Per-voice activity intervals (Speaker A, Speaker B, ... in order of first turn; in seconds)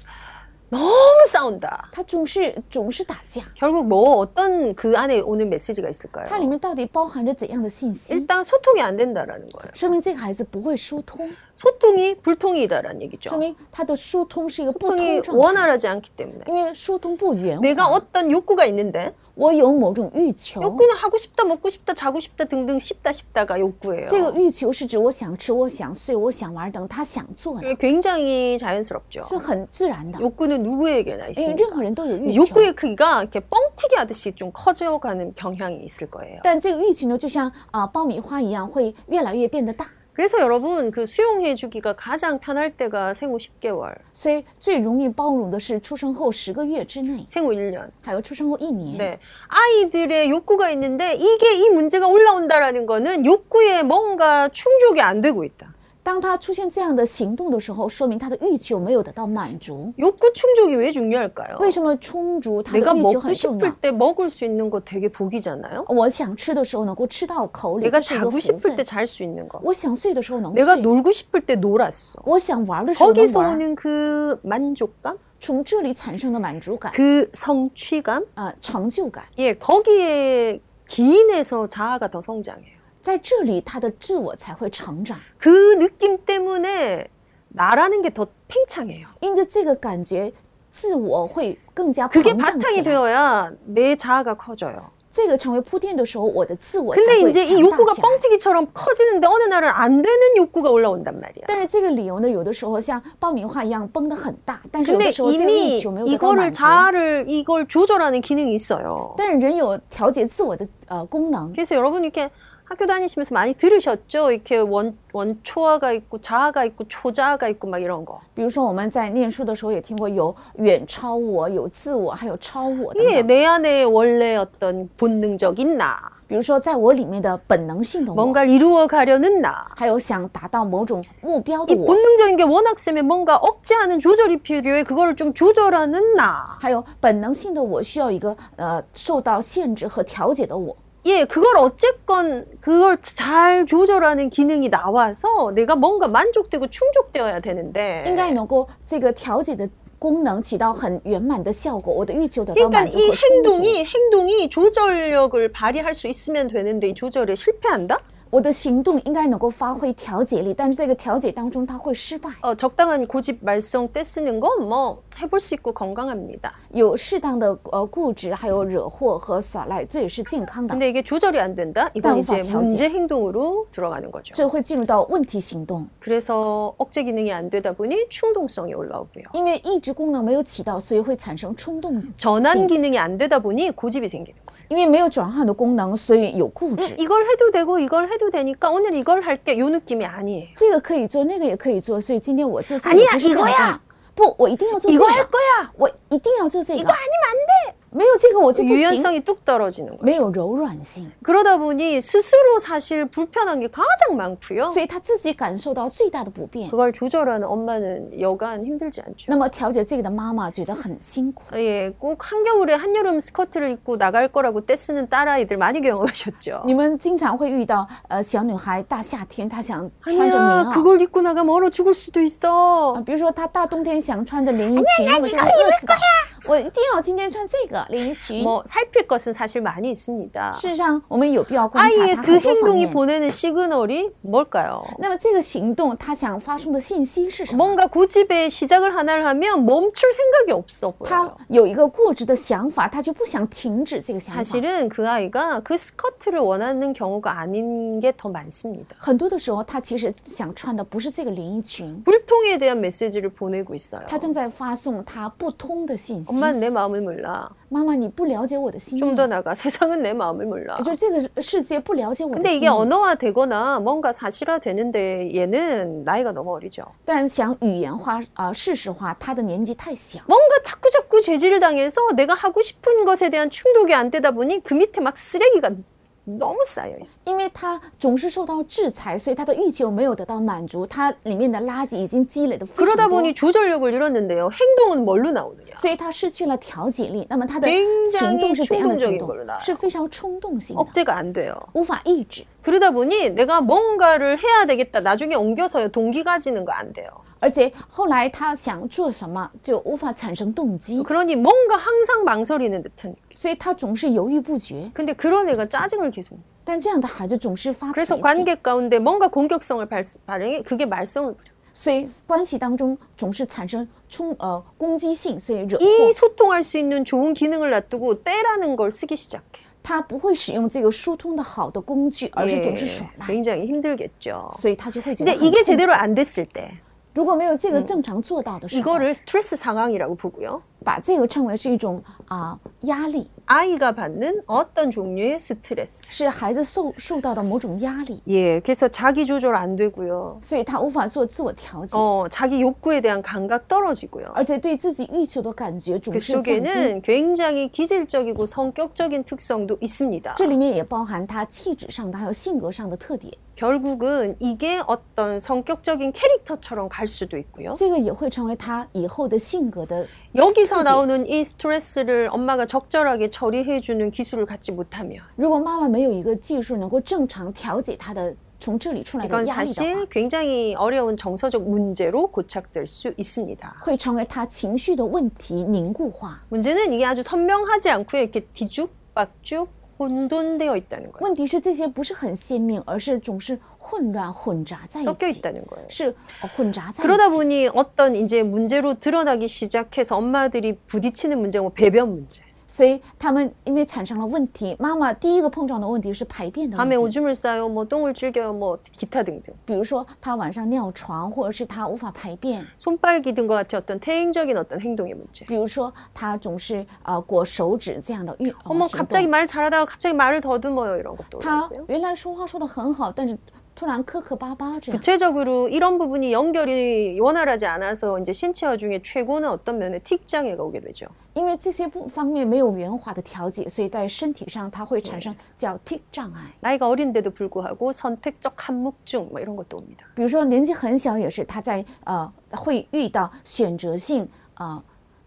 Speaker A: 0.7-1.9, 3.6-6.5, 8.1-9.8, 11.6-13.4, 14.7-16.5, 17.6-19.2, 20.6-24.4, 27.6-29.4, 30.2-36.5, 40.1-44.0, 47.3-47.9, 48.9-55.7, 60.0-61.8, 62.7-65.9, 67.8-69.7, 70.5-72.3, 73.0-75.2, 76.9-78.3, 79.4-82.8, 85.4-89.1, 92.1-94.9, 96.9-101.6, 104.8-109.2, 111.5-118.2, 122.9-126.1, 128.1-129.8, 131.7-136.6, 141.0-148.4, 152.5-158.0, 162.4-166.6, 170.7-174.4, 176.0-179.3, 182.2-184.5, 186.8-190.6, 192.8-193.8, 194.7-195.7, 196.7-197.7, 198.5-200.2, 201.2-204.8, 206.7-209.4, 211.5-216.7, 220.0-223.0, 224.7-226.3, 228.3-230.7, 231.7-235.0, 237.5-241.4, 244.3-249.0, 252.0-254.3, 256.3-257.5, 259.0-260.9, 262.3-266.9, 270.3-277.1, 282.8-285.8, 287.6-289.8, 290.8-291.7, 292.6-297.2, 301.0-303.3, 304.9-306.4, 307.9-311.5, 315.8-319.6, 322.3-324.6, 325.2-326.8, 328.7-330.6, 333.5-336.1, 338.2-340.4, 341.9-344.4, 346.1-350.6, 353.6-357.8, 360.3-365.3, 369.2-373.8, 376.5-381.3, 385.0-385.9, 387.0-392.4, 396.8-399.6, 402.8-405.5, 408.6-411.9, 414.9-421.1, 425.0-425.3, 426.6-430.1
Speaker B: 1.9-3.5, 6.2-8.3, 9.7-11.4, 13.3-15.7, 16.4-18.0, 19.3-20.9, 24.1-27.7, 29.2-30.2, 31.4-32.7, 36.4-39.9, 44.1-47.3, 48.0-49.1, 56.0-60.0, 61.6-63.8, 65.9-68.8, 69.6-70.9, 72.2-73.6, 75.4-77.0, 78.3-79.3, 83.0-85.2, 89.2-93.0, 95.1-98.2, 101.5-106.9, 109.2-111.6, 118.3-123.3, 126.3-128.4, 129.8-132.0, 136.6-140.8, 148.0-153.8, 158.3-162.4, 166.7-170.8, 172.0-172.8, 174.3-175.9, 179.3-182.7, 184.7-187.0, 190.6-197.0, 197.9-199.1, 200.0-201.1, 204.7-206.7, 209.3-211.5, 216.6-220.9, 222.9-228.5, 230.5-233.0, 235.0-237.8, 241.0-244.6, 249.0-252.1, 254.1-256.6, 257.7-259.3, 260.8-262.9, 267.1-270.3, 277.2-283.3, 285.8-290.9, 291.7-292.5, 297.4-301.1, 303.4-304.9, 306.6-308.5, 311.7-316.1, 319.8-323.4, 324.5-325.8, 327.1-329.1, 330.8-333.3, 336.1-338.2, 340.4-342.1, 344.3-346.9, 350.4-353.4, 357.8-360.1, 360.6-361.0, 365.4-370.1, 373.8-376.4, 381.2-387.4, 392.7-397.1, 399.7-402.7, 405.5-409.3, 411.4-415.0, 421.3-426.5, 430.1-434.8